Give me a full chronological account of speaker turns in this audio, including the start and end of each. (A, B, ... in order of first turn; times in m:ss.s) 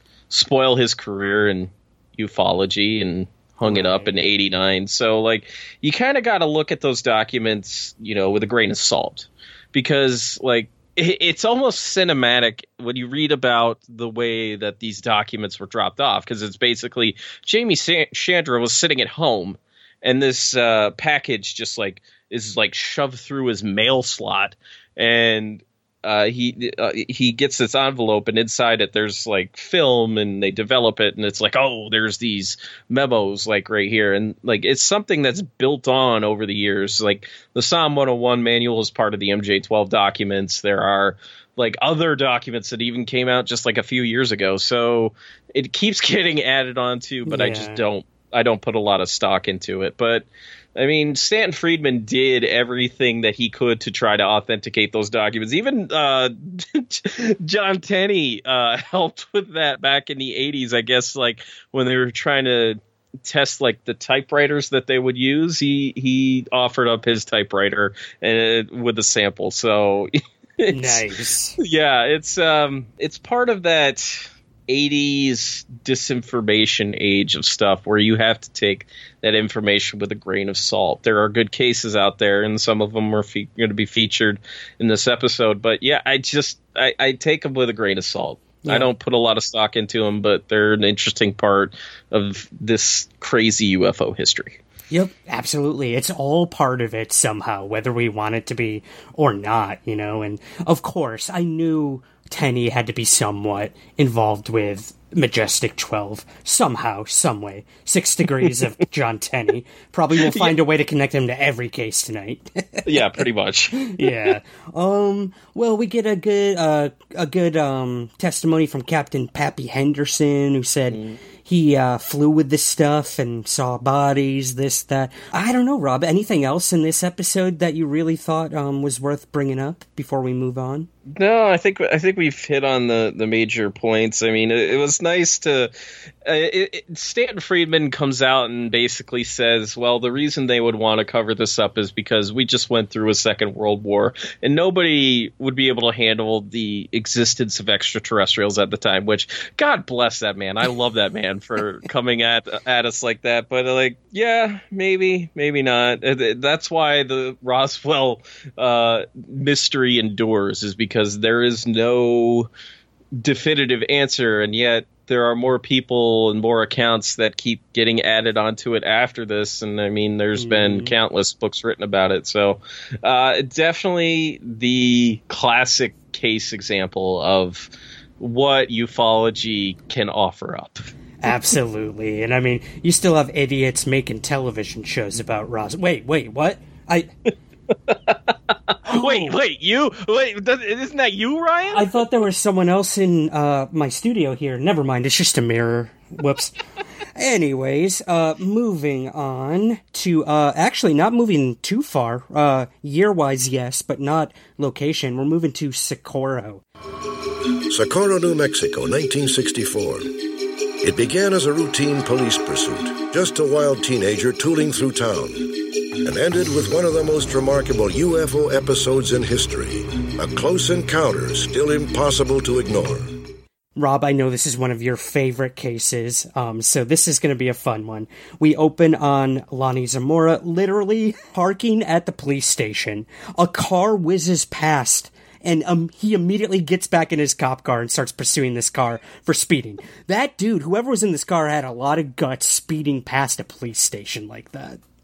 0:00.3-1:11.0 A
0:03.6-0:04.2 B
0:47.3-0:47.8 B
1:10.7-1:11.6 B
1:11.6-1:34.6 A
1:28.6-1:28.9 B
1:34.9-1:52.9 B
1:50.3-1:50.6 A
1:52.8-1:54.4 A
1:53.9-2:10.9 B
2:00.9-2:01.2 A
2:11.2-2:15.7 A
2:16.2-2:42.5 A
2:43.2-3:00.8 A
2:50.4-2:51.0 B
3:01.2-3:07.1 B
3:07.9-3:08.2 A
3:08.9-3:09.3 B
3:08.9-3:11.9 A
3:11.7-3:16.5 B
3:17.2-3:26.6 B
3:27.7-3:30.1 C
3:30.8-3:35.5 C
3:36.0-3:43.2 C
3:43.8-4:04.8 B